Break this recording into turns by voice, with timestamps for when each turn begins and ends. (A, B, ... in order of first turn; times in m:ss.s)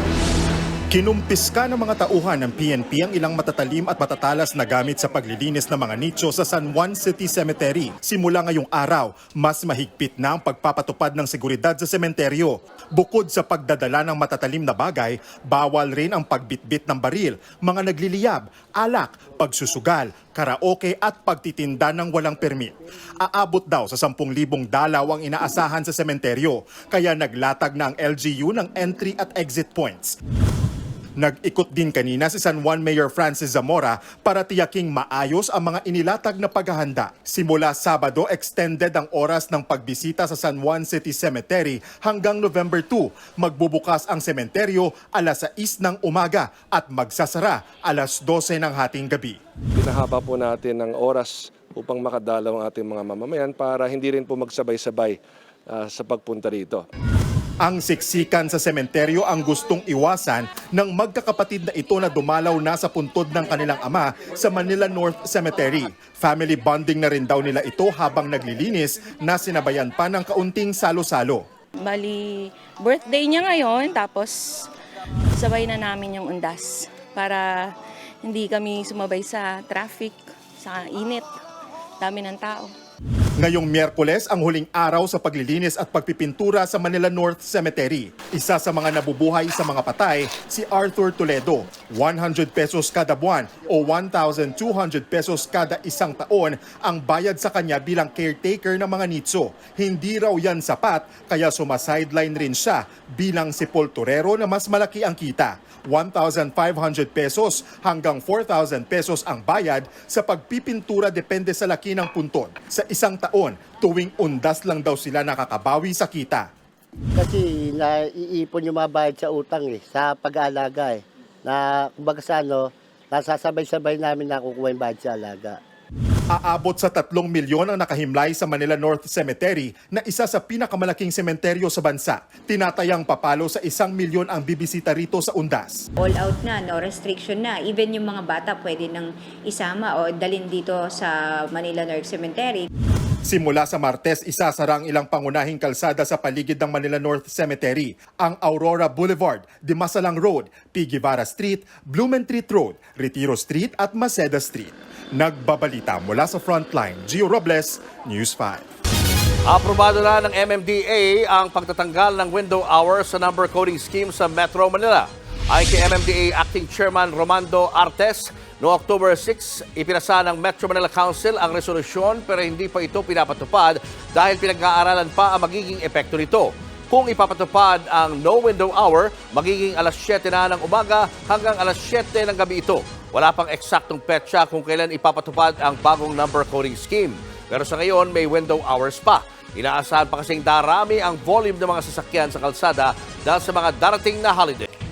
0:00.9-0:30.2 A
0:31.2-0:49.4 A
0:49.8-0:55.2 B
0:55.7-0:56.8 B
0:57.6-1:11.4 A
1:11.8-1:14.7 C
1:15.4-1:21.3 C
1:22.0-1:22.7 C
1:23.4-1:56.5 A
1:57.2-2:05.6 D
2:06.3-2:15.8 A
2:16.0-2:22.7 E
2:23.2-2:38.6 A
2:39.5-3:14.7 F